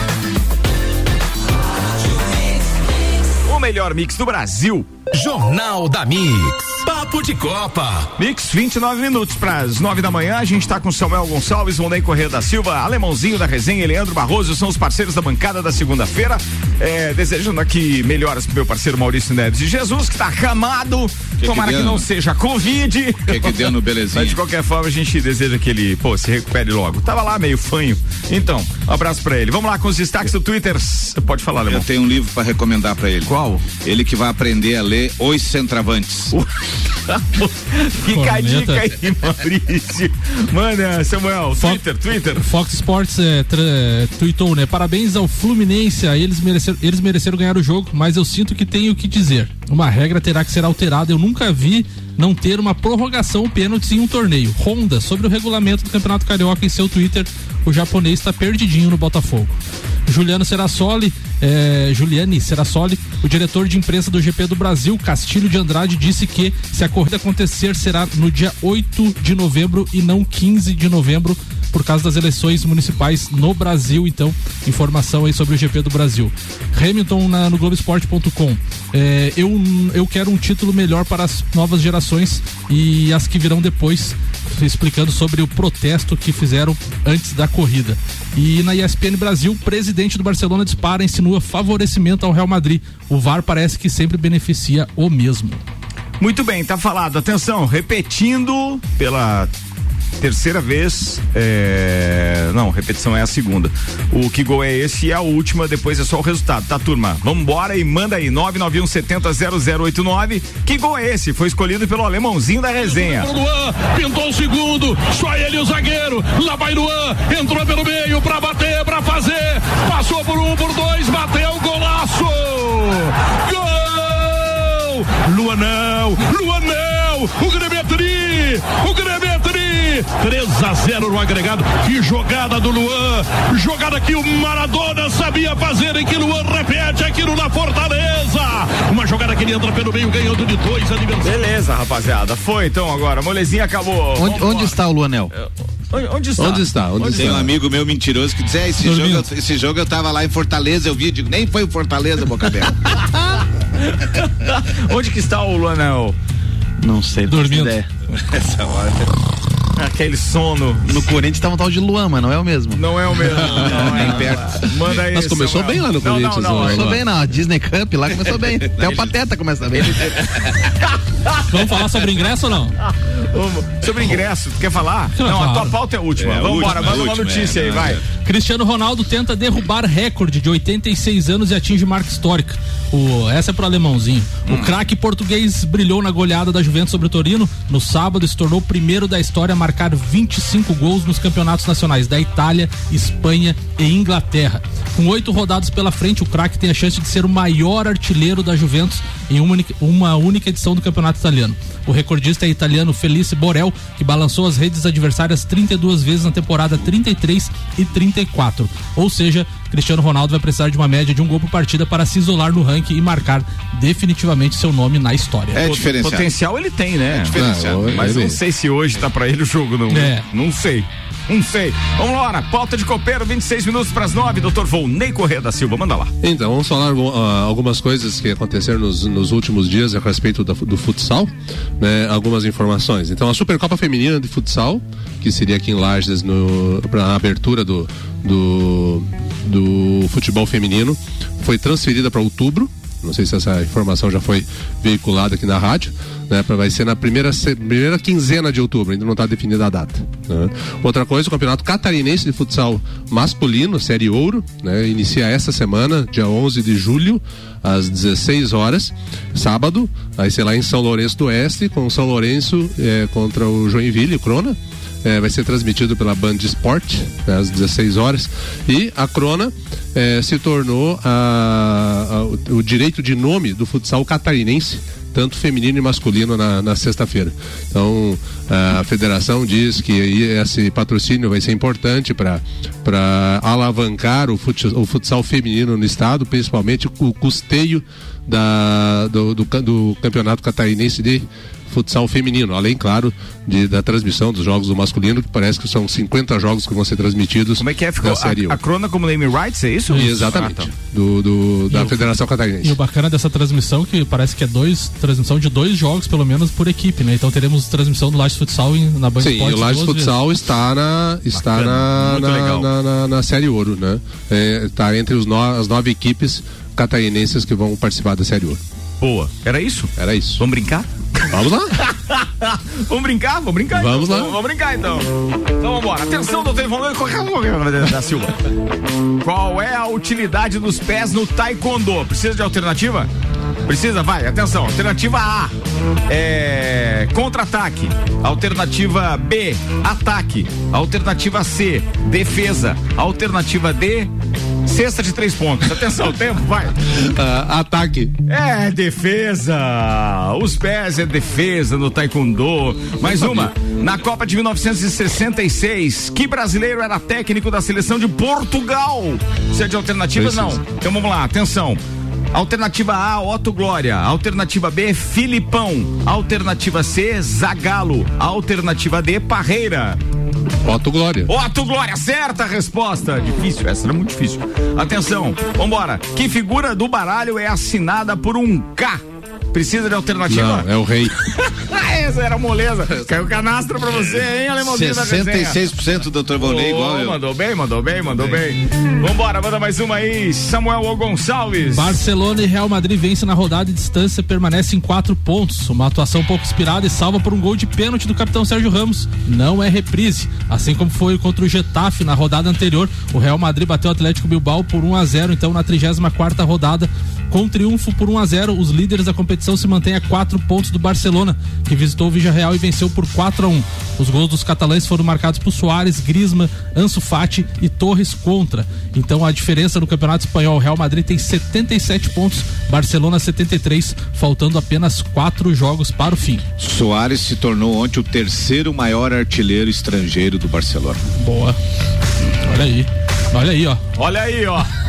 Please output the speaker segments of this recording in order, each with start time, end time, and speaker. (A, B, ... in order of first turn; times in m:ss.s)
0:03.4-0:04.9 A
0:05.1-0:08.1 B
0:08.2-0:31.8 A
0:21.4-0:22.0 C
0:23.2-0:24.4 C
0:31.7-0:36.3 C
0:33.2-0:33.6 A
0:37.0-0:42.4 A
0:38.1-0:38.8 D
0:41.6-0:41.8 D
0:42.3-1:35.6 D
1:36.2-1:39.5 A
1:40.2-1:53.3 A
1:52.8-2:21.4 E
2:21.2-2:24.8 A
2:24.2-2:25.3 F
2:25.3-2:27.4 A
2:26.4-2:27.5 G
2:27.1-2:32.7 C
2:28.8-2:29.2 D
2:33.9-2:36.2 A
2:36.8-2:37.9 F
2:37.3-2:37.7 D
2:38.3-2:39.0 C
2:39.8-2:40.9 A
2:40.8-2:42.8 F
2:42.8-2:46.9 A
2:43.3-2:44.6 C
2:45.0-2:47.0 G
2:46.6-2:50.2 F
2:48.7-2:49.0 C
2:51.5-2:52.8 D
2:53.2-2:58.0 A
2:55.2-2:55.7 D
2:56.2-2:58.0 C
2:58.2-3:35.6 D
3:04.4-3:04.7 C
3:35.5-3:36.3 C
3:35.6-3:37.4 A
3:37.1-3:38.2 C
3:37.3-3:38.4 G
3:37.9-3:46.1 A
3:39.9-3:40.2 D
3:46.2-4:58.6 G
4:57.6-5:00.7 A
4:59.9-5:00.2 D
4:59.9-5:02.8 G
5:01.7-5:02.0 D
5:02.6-5:10.2 D
5:09.2-5:18.6 G
5:11.3-5:12.7 A
5:19.0-5:25.1 A
5:20.0-5:20.4 G
5:21.3-5:21.7 G
5:23.7-5:24.4 G
5:25.6-5:28.3 A
5:29.2-5:33.1 A
5:33.6-5:35.5 A
5:36.1-5:44.1 A
5:44.6-5:46.7 A
5:47.0-5:48.1 G
5:48.3-6:01.8 A
6:00.2-6:00.6 G
6:02.3-6:10.0 A
6:10.6-6:11.3 G
6:11.3-6:19.0 A
6:19.5-6:20.7 A
6:20.3-6:21.1 G
6:21.3-6:25.6 A
6:24.6-6:27.2 C
6:26.4-6:32.0 A
6:31.7-7:06.4 D
7:06.6-7:11.0 C
7:11.2-7:11.6 D
7:12.4-7:13.8 D
7:14.0-7:14.7 A